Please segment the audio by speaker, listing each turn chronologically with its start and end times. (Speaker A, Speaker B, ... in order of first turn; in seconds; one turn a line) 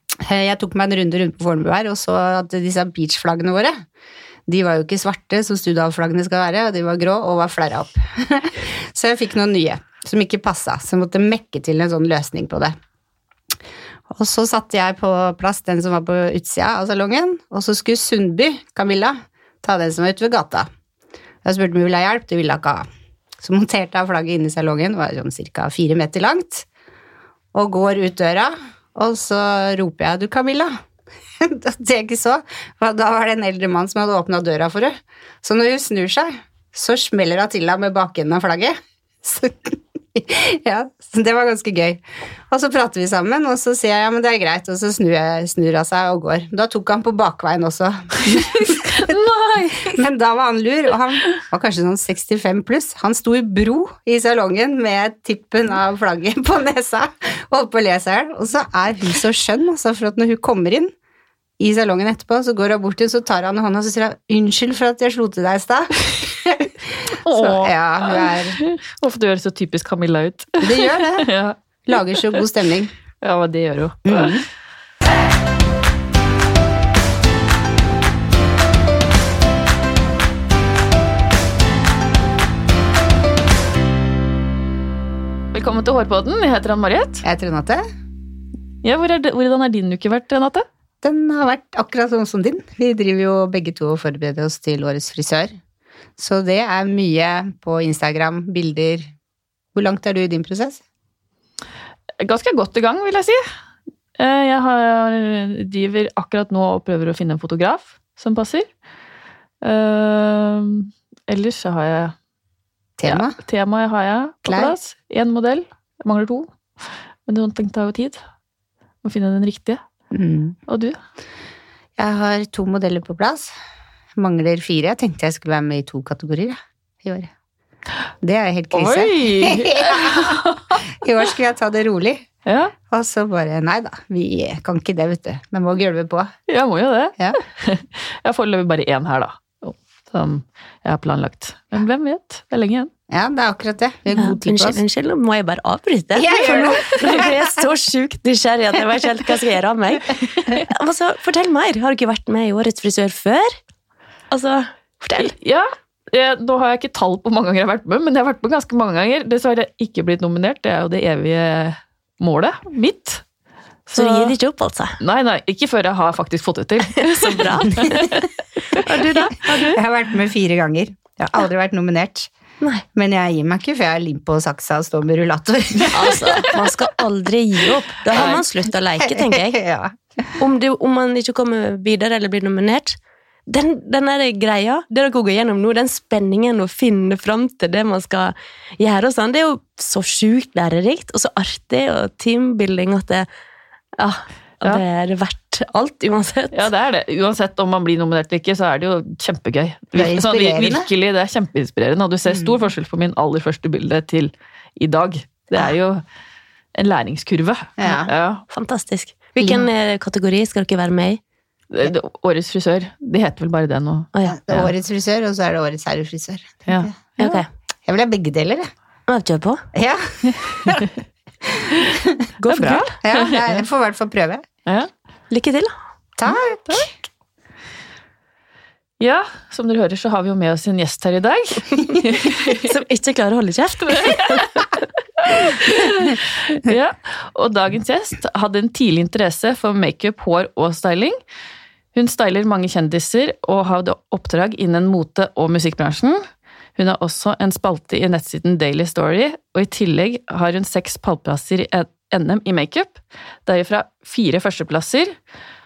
Speaker A: 0.2-3.8
Speaker A: 4.5-12.8
Speaker A: 14.1-20.7
Speaker A: 21.4-22.9
Speaker A: 23.4-26.6
Speaker A: 27.5-30.8
Speaker A: 31.4-49.2
Speaker B: 48.7-50.0
Speaker A: 49.9-60.9
Speaker A: 61.6-68.6
Speaker B: 67.2-71.5
Speaker A: 70.6-71.3
Speaker A: 71.9-72.9
Speaker B: 73.2-74.4
Speaker A: 74.0-74.4
Speaker B: 85.5-87.2
Speaker A: 87.2-87.8
Speaker B: 88.8-90.7
Speaker A: 91.0-95.6
Speaker A: 96.2-99.1
Speaker A: 99.7-100.8
Speaker B: 102.2-103.4
Speaker B: 104.2-108.7
Speaker B: 109.6-112.1
Speaker A: 113.0-113.3
Speaker B: 113.0-118.2
Speaker A: 114.5-114.7
Speaker B: 119.0-119.8
Speaker A: 120.1-120.6
Speaker B: 120.7-121.0
Speaker A: 122.0-123.5
Speaker A: 124.2-127.3
Speaker A: 128.2-130.4
Speaker B: 128.7-130.6
Speaker A: 130.9-132.3
Speaker B: 132.4-132.7
Speaker A: 132.9-136.3
Speaker B: 136.5-142.9
Speaker A: 143.1-144.8
Speaker C: 144.2-153.5
Speaker A: 146.2-147.5
Speaker C: 154.3-155.3
Speaker B: 155.2-163.2
Speaker B: 163.9-164.3
Speaker C: 163.9-165.0
Speaker B: 165.0-169.0
Speaker C: 167.0-168.1
Speaker C: 168.8-169.8
Speaker A: 169.7-172.3
Speaker A: 172.9-176.5
Speaker C: 175.9-179.6
Speaker B: 178.1-178.4
Speaker A: 179.0-180.3
Speaker C: 180.4-193.3
Speaker C: 194.0-196.7
Speaker B: 196.5-206.0
Speaker A: 199.9-200.9
Speaker B: 206.8-208.4
Speaker A: 207.8-208.1
Speaker C: 208.5-211.2
Speaker B: 211.7-214.7
Speaker C: 214.1-214.4
Speaker A: 214.3-216.9
Speaker B: 216.7-217.4
Speaker C: 217.2-217.5
Speaker A: 217.8-218.7
Speaker C: 219.1-219.6
Speaker A: 219.7-220.9
Speaker A: 221.6-222.0
Speaker C: 222.4-222.9
Speaker B: 222.5-223.4
Speaker A: 223.0-224.5
Speaker C: 225.3-225.7
Speaker A: 226.2-226.9
Speaker B: 229.0-232.7
Speaker C: 232.6-234.6
Speaker B: 233.9-234.7
Speaker B: 235.2-241.2
Speaker B: 241.9-246.2
Speaker B: 246.8-255.1